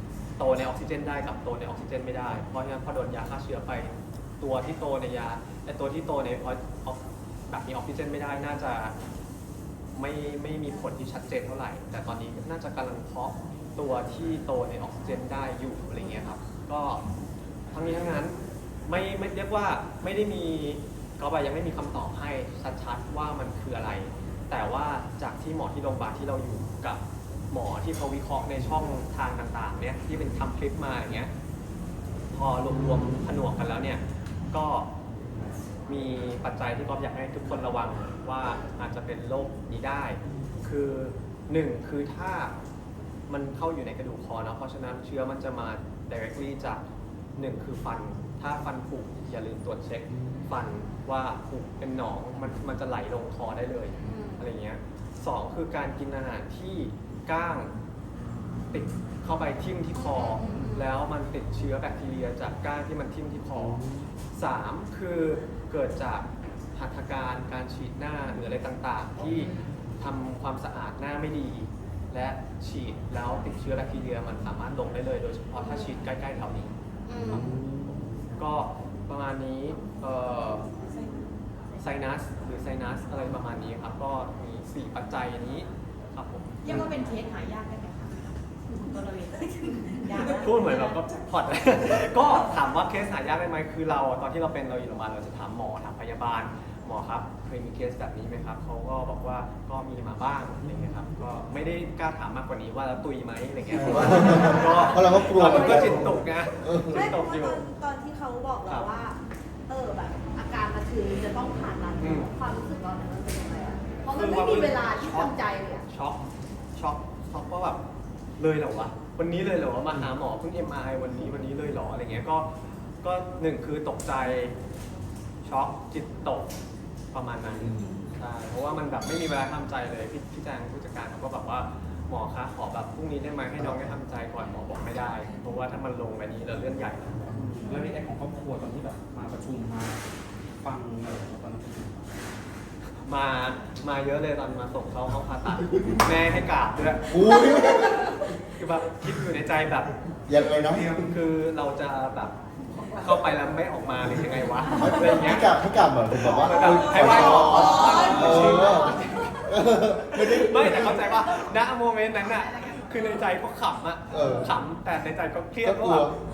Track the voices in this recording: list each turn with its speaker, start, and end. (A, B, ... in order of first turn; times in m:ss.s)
0:00.4-0:08.9 A
0:09.9-0:17.0 A
0:17.7-0:18.4 A
0:18.9-0:31.3 A
0:32.3-0:34.9 A
0:35.9-0:42.5 A
0:43.3-0:46.8 A
0:47.4-0:57.7 A
0:50.1-0:50.5 B
0:54.1-0:54.4 C
0:58.7-1:03.8 A
1:00.0-1:00.8 C
1:00.4-1:00.7 D
1:03.6-1:04.1 B
1:04.3-1:16.7 A
1:17.1-1:17.4 D
1:17.1-1:17.4 C
1:17.2-1:18.0 B
1:18.4-1:20.7 A
1:21.8-1:26.6 A
1:26.6-1:31.0 D
1:30.2-1:47.6 A
1:43.7-1:47.1 B
1:43.9-1:46.1 C
1:46.8-1:55.8 C
1:52.0-1:52.3 A
1:54.1-1:55.3 A
1:55.8-1:56.2 A
1:56.7-1:57.8 A
1:58.4-2:02.5 A
2:03.0-2:04.5 A
2:05.4-2:06.5 A
2:07.1-2:17.4 A
2:07.6-2:08.0 E
2:13.6-2:13.9 B
2:17.3-2:20.0 E
2:20.6-2:22.3 E
2:23.0-2:27.5 A
2:27.0-2:28.1 B
2:28.5-2:29.9 A
2:30.3-2:31.0 B
2:30.9-2:35.6 A
2:34.7-2:41.2 B
2:36.2-2:39.4 A
2:36.6-2:38.8 E
2:37.8-2:38.1 C
2:40.4-2:46.1 A
2:44.1-2:44.5 B
2:45.6-2:46.1 B